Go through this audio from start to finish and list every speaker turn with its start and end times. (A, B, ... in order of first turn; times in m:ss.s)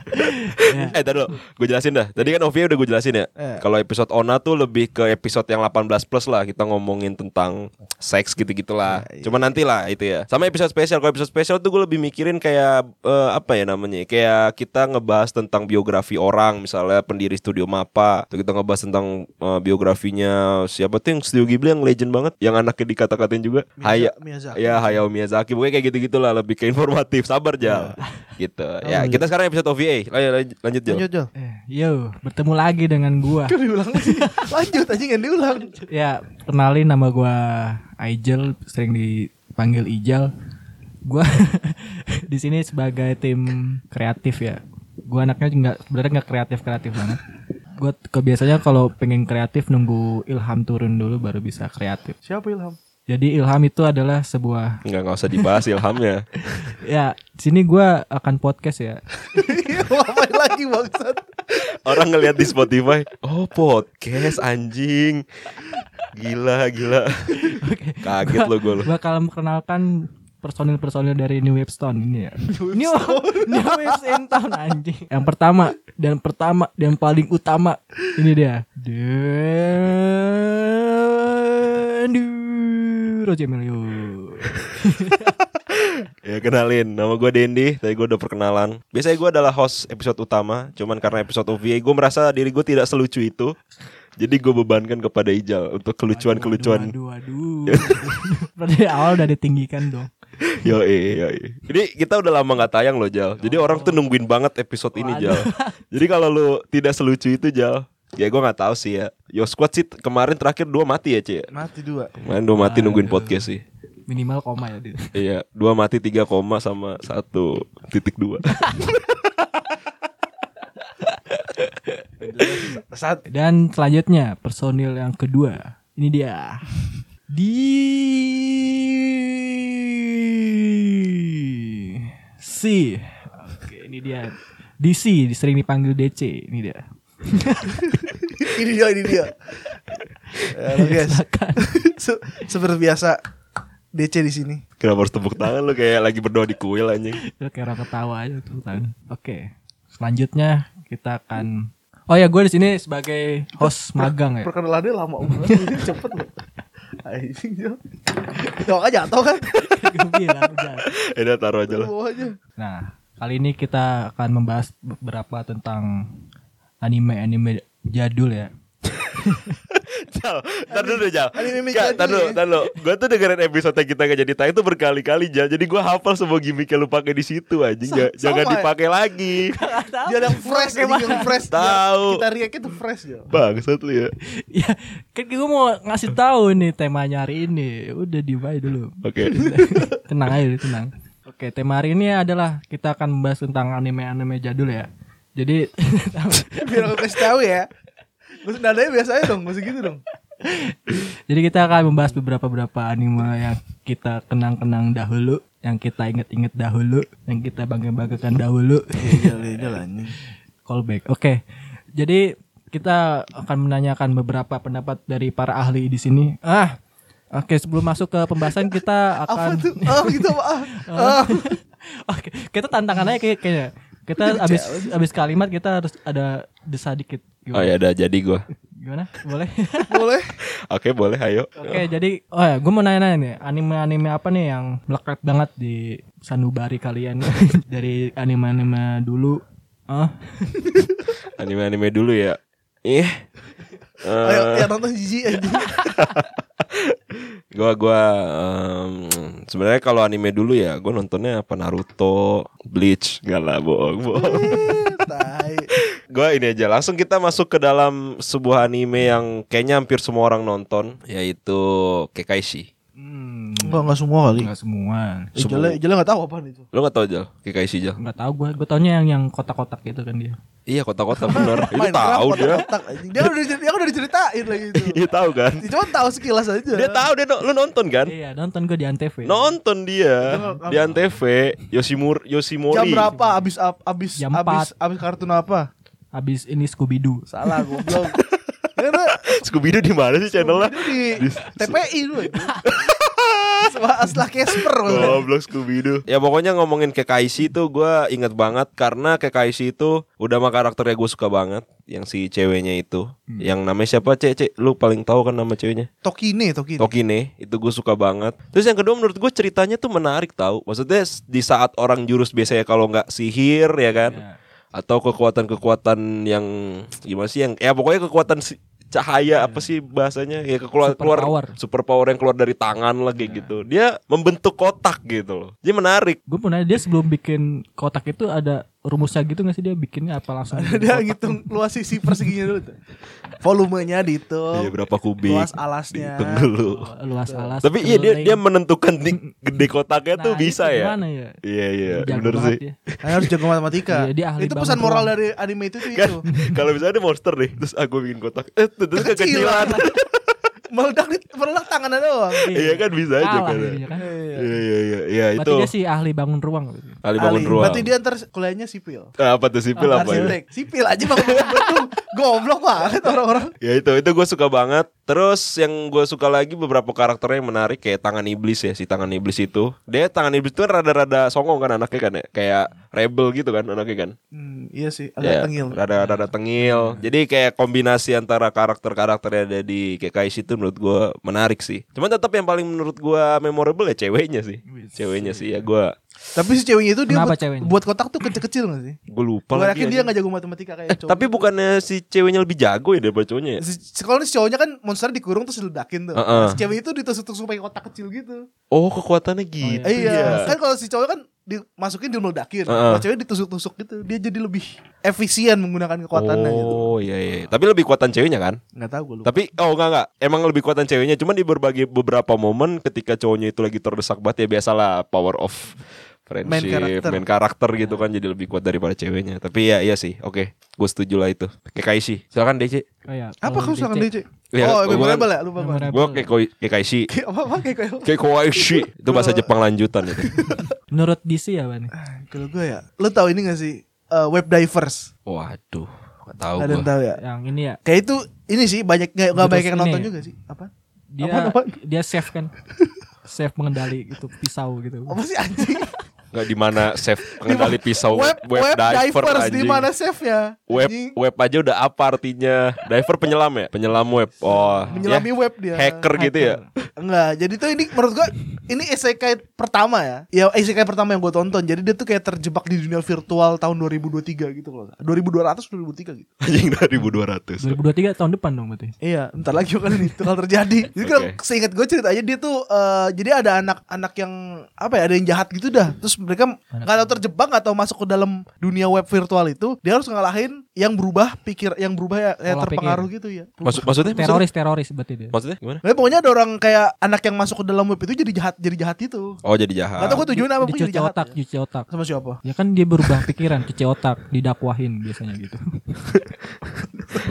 0:00.1-0:01.0 A
0:00.7-0:01.0 B
0:00.9-0:31.0 C
0:03.4-0:03.6 B
0:08.9-0:09.4 B
0:23.8-0:24.8 B
0:27.6-0:28.0 B
0:28.8-0:29.2 B
0:30.9-0:31.3 B
0:31.4-0:34.6 A
0:33.5-0:35.8 B
0:35.9-0:40.3 A
0:41.0-0:47.2 A
0:47.8-0:52.2 A
0:52.2-0:52.8 B
0:53.1-0:54.8 A
0:54.8-0:56.2 C
0:56.5-0:59.7 A
0:59.3-1:01.8 B
1:01.6-1:05.2 C
1:06.1-1:07.5 C
1:07.4-1:25.4 A
1:08.0-1:08.9 C
1:12.5-1:14.3 B
1:26.2-1:33.6 C
1:34.2-1:36.9 C
1:36.2-1:40.1 A
1:37.7-1:38.2 C
1:40.4-1:51.5 C
1:43.4-1:44.0 A
1:45.0-1:45.8 A
1:51.5-1:52.1 B
1:52.2-1:53.6 C
1:52.5-1:53.5 A
1:54.1-1:55.2 A
1:55.2-1:58.6 C
1:58.5-1:58.8 A
2:01.0-2:06.7 A
2:02.9-2:03.2 B
2:07.3-2:18.0 A
2:18.4-2:19.4 B
2:20.5-2:23.2 B
2:20.7-2:21.8 A
2:23.9-2:24.6 B
2:24.8-2:27.2 C
2:27.2-2:34.5 A
2:34.4-2:36.3 B
2:35.3-2:35.8 A
2:37.0-2:39.6 B
2:39.5-2:40.9 A
2:40.9-2:41.9 C
2:41.7-2:42.4 B
2:42.6-2:46.2 A
2:46.8-2:48.5 A
2:49.1-2:49.6 A
2:49.7-2:59.5 C
2:50.7-2:52.4 B
2:57.9-2:58.7 B
2:59.5-3:01.4 A
3:00.1-3:03.3 B
3:01.5-3:02.2 C
3:03.3-3:04.1 C
3:04.5-3:17.2 A
3:09.0-3:09.4 C
3:16.6-3:17.7 B
3:18.4-3:20.0 B
3:20.4-3:29.4 A
3:29.0-3:30.1 B
3:30.7-3:31.4 A
3:32.0-3:36.8 A
3:37.3-3:47.7 A
3:39.3-3:41.5 B
3:44.2-3:44.9 B
3:47.5-3:48.5 C
3:48.8-3:50.0 A
3:49.9-3:50.3 B
3:50.5-3:51.8 C
3:51.6-4:00.8 A
4:01.4-4:03.2 C
4:04.0-4:04.7 C
4:04.2-4:05.8 B
4:05.7-4:14.9 C
4:14.2-4:15.7 B
4:15.8-4:22.7 C
4:23.0-4:25.3 A
4:23.6-4:24.5 B
4:25.4-4:26.7 B
4:25.4-4:25.8 C
4:26.7-4:28.0 C
4:28.0-4:30.4 A
4:30.7-4:32.7 C
4:31.3-4:31.7 A
4:31.3-4:35.0 B
4:34.7-4:35.7 C
4:35.6-4:37.0 B
4:36.7-4:38.1 C
4:38.0-4:39.5 A
4:39.2-4:43.1 C
4:40.2-4:41.0 B
4:42.7-4:45.7 B
4:43.1-4:43.4 A
4:44.2-4:44.7 A
4:46.1-4:47.9 A
4:47.3-4:48.2 B
4:48.8-4:49.2 B
4:49.2-4:51.8 C
4:50.3-4:52.6 B
4:52.6-4:53.7 C
4:53.6-4:55.3 B
4:54.8-5:05.9 C
4:54.9-4:55.2 A
5:06.0-5:06.9 B
5:06.8-5:14.2 C
5:14.0-5:14.4 A
5:14.7-5:26.2 C
5:19.4-5:19.7 A
5:20.8-5:21.6 A
5:23.2-5:23.6 A
5:26.3-5:31.5 A
5:30.5-5:32.8 B
5:32.0-5:32.4 A
5:33.4-5:36.5 B
5:34.5-5:36.9 C
5:36.6-5:38.4 A
5:37.3-5:37.5 B
5:37.6-5:43.3 C
5:40.2-5:42.8 A
5:43.0-5:46.2 B
5:43.9-5:45.1 A
5:45.9-5:50.2 C
5:46.3-5:46.6 A
5:49.0-5:49.9 B
5:49.6-5:49.9 A
5:50.7-5:52.5 B
5:52.4-5:54.1 A
5:52.5-5:53.8 C
5:54.0-5:54.6 B
5:54.4-5:55.7 C
5:55.4-5:57.0 A
5:57.0-5:57.9 C
5:57.2-5:59.1 B
5:59.2-6:00.3 C
5:59.8-6:00.4 A
5:59.9-6:03.5 B
6:01.2-6:01.7 A
6:03.6-6:14.2 C
6:14.3-6:15.8 B
6:15.2-6:25.9 C
6:16.0-6:17.1 A
6:24.7-6:25.6 A
6:26.4-6:29.0 B
6:27.1-6:27.7 A
6:29.1-6:30.1 C
6:29.5-6:31.3 B
6:30.9-6:33.6 C
6:33.6-6:38.5 B
6:36.2-6:36.6 C
6:38.7-6:40.5 C
6:39.6-6:40.6 A
6:39.8-6:46.9 B
6:42.7-6:43.1 C
6:46.1-6:48.6 C
6:48.8-6:49.3 B
6:49.2-6:55.8 C
6:56.3-7:02.8 C
6:56.4-6:57.2 B
6:57.8-6:58.0 A
7:03.1-7:04.1 A
7:03.4-7:05.9 B
7:04.5-7:05.3 C
7:05.6-7:06.3 A
7:05.9-7:07.1 C
7:07.1-7:09.5 B
7:08.0-7:10.5 C
7:10.2-7:10.7 B
7:10.9-7:11.9 A
7:12.0-7:15.1 B
7:15.3-7:16.9 C
7:16.6-7:17.2 B
7:17.2-7:17.8 A
7:17.8-7:21.8 B
7:19.3-7:20.1 A
7:21.1-7:22.5 A
7:23.3-7:25.9 A
7:25.1-7:25.9 B
7:26.3-7:29.9 C
7:27.3-7:31.2 B
7:30.7-7:36.6 C
7:34.5-7:35.0 A
7:34.9-7:36.0 B
7:36.1-7:36.7 A
7:37.0-7:46.3 B
7:46.4-7:47.8 C
7:47.6-7:48.9 A
7:49.0-8:04.4 B
7:51.0-7:51.4 C
7:56.7-7:57.2 A
8:02.5-8:03.0 A
8:03.6-8:04.4 C
8:04.1-8:05.4 A
8:05.3-8:05.8 C
8:05.8-8:09.4 B
8:09.4-8:10.2 C
8:10.0-8:11.3 B
8:10.0-8:11.9 A
8:11.9-8:12.4 B
8:12.4-8:15.6 A